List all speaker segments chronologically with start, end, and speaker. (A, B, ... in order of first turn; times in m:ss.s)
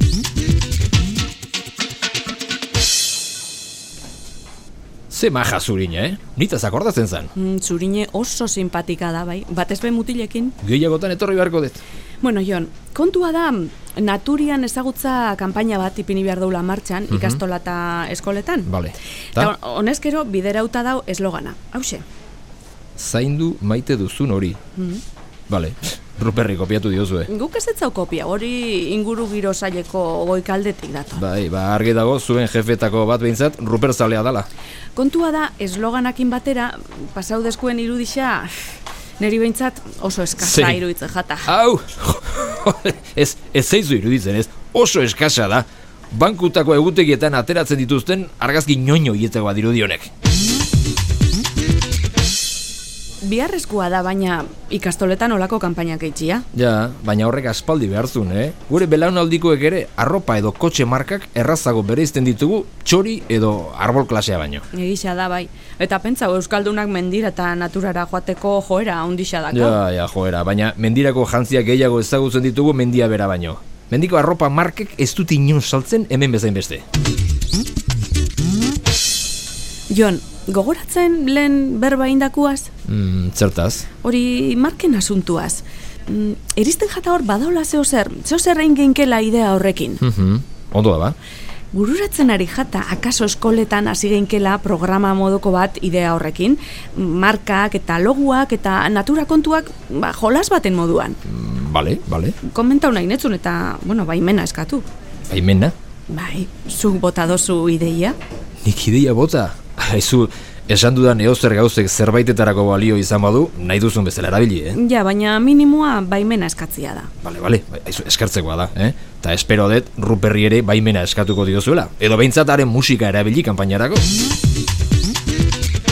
0:05.1-0:07.3 A
0:07.4-0:10.6 B
0:10.6-0:11.8 A
0:12.2-0:18.7 B
0:17.1-0:17.4 A
0:18.7-0:19.5 A
0:19.3-0:22.0 B
0:23.0-0:24.6 A
0:24.8-0:25.0 B
0:25.5-0:27.3 A
0:27.3-0:31.2 B
0:31.1-0:34.5 A
0:34.9-0:38.5 B
0:39.2-0:41.5 B
0:40.4-0:40.8 A
0:41.4-0:50.1 A
0:53.2-0:56.4 B
0:56.5-1:04.6 A
1:04.7-1:09.8 B
1:09.5-1:16.8 A
1:19.9-1:22.7 B
1:22.8-1:23.9 A
1:24.0-1:30.0 B
1:30.0-1:31.2 A
1:31.7-1:41.2 B
1:41.2-1:42.4 A
1:42.4-1:44.8 B
1:45.3-1:45.7 A
1:46.1-1:48.2 B
1:48.6-1:54.8 A
1:54.7-1:57.1 B
1:57.2-2:04.1 A